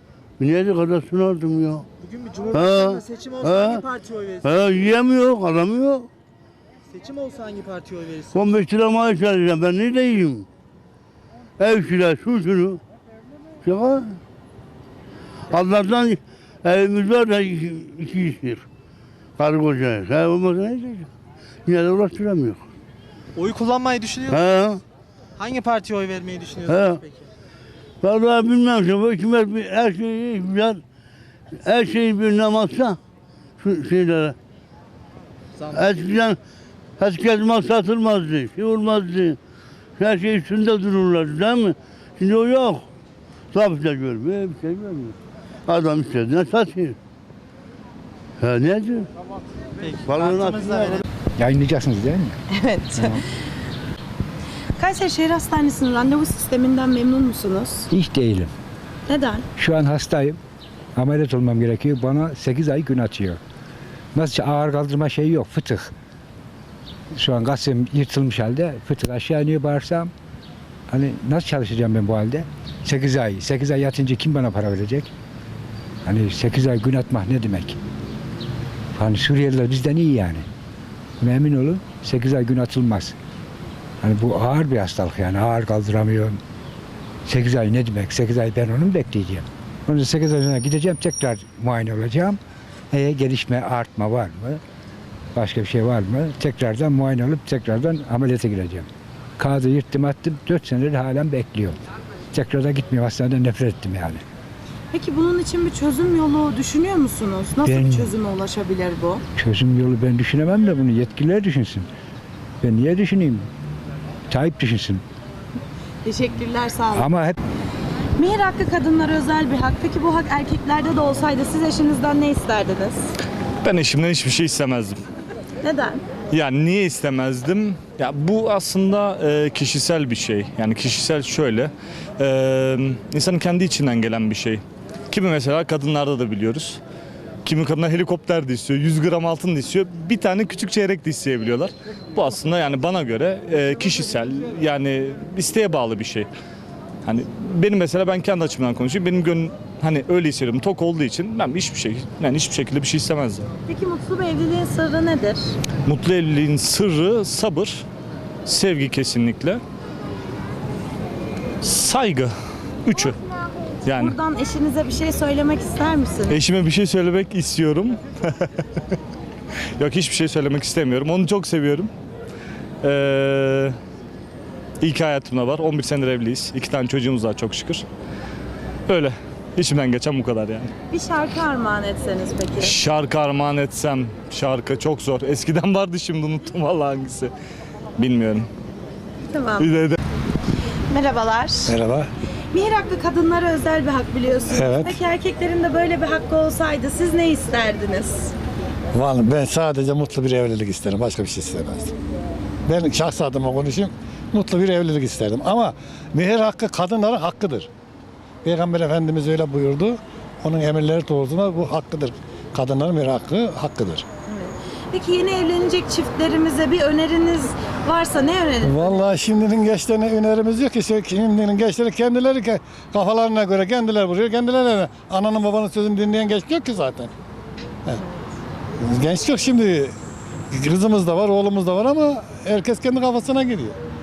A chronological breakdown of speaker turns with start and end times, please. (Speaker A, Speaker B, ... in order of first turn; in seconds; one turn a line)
Speaker A: 0.4-1.9
Speaker B: 2.0-4.5
Speaker A: 2.5-3.9
Speaker A: 4.4-6.1
Speaker B: 6.9-8.4
Speaker A: 8.3-10.5
Speaker A: 11.6-12.8
Speaker A: 13.6-14.2
Speaker A: 15.5-18.6
Speaker A: 19.4-21.1
Speaker A: 21.7-22.6
Speaker B: 23.4-24.4
Speaker A: 24.3-24.8
Speaker B: 25.4-27.3
Speaker A: 26.6-27.0
Speaker A: 28.0-30.8
Speaker A: 31.6-33.0
Speaker A: 33.6-34.4
Speaker B: 35.6-35.8
Speaker A: 35.7-36.4
Speaker A: 37.0-39.4
Speaker A: 40.0-42.9
Speaker A: 43.5-45.1
Speaker A: 45.7-47.0
Speaker A: 48.4-49.1
Speaker B: 49.8-51.0
Speaker A: 50.0-51.0
Speaker C: 51.4-52.4
Speaker D: 52.5-53.2
Speaker C: 53.0-53.2
Speaker D: 54.8-57.9
Speaker C: 57.9-58.5
Speaker D: 59.1-59.5
Speaker C: 59.6-60.4
Speaker C: 61.0-63.4
Speaker C: 64.2-65.9
Speaker C: 67.2-70.1
Speaker C: 70.9-75.1
Speaker C: 76.0-77.8
Speaker C: 79.0-80.5
Speaker C: 81.2-83.2
Speaker C: 84.0-86.4
Speaker C: 87.3-92.4
Speaker C: 92.9-94.6
Speaker C: 95.3-101.8
Speaker C: 102.3-104.2
Speaker D: 104.9-109.2
Speaker C: 107.6-108.1
Speaker C: 109.4-111.9
Speaker C: 112.6-113.5
Speaker C: 114.3-115.0
Speaker D: 116.0-117.1
Speaker C: 116.9-117.4
Speaker D: 118.2-123.1
Speaker E: 123.6-125.0
Speaker D: 125.6-126.0
Speaker E: 126.3-136.8
Speaker E: 137.4-146.3
Speaker E: 147.1-153.5
Speaker D: 153.7-155.5
Speaker E: 155.8-157.8
Speaker E: 158.5-159.6
Speaker E: 161.6-162.3
Speaker E: 162.8-163.2
Speaker E: 163.8-164.2
Speaker D: 163.9-166.4
Speaker E: 166.3-168.7
Speaker E: 169.8-171.9
Speaker E: 172.8-173.8
Speaker E: 174.8-177.8
Speaker E: 178.9-180.7
Speaker D: 180.9-182.8
Speaker E: 182.6-187.3
Speaker E: 188.0-188.5
Speaker D: 189.3-189.7
Speaker E: 189.6-190.0
Speaker D: 190.9-191.8
Speaker F: 191.7-192.1
Speaker D: 192.5-198.3
Speaker F: 194.5-195.0
Speaker F: 198.9-201.9
Speaker F: 202.7-207.7
Speaker F: 208.4-214.1
Speaker D: 214.3-219.0
Speaker F: 218.6-227.1
Speaker F: 228.8-229.9
Speaker F: 230.5-233.8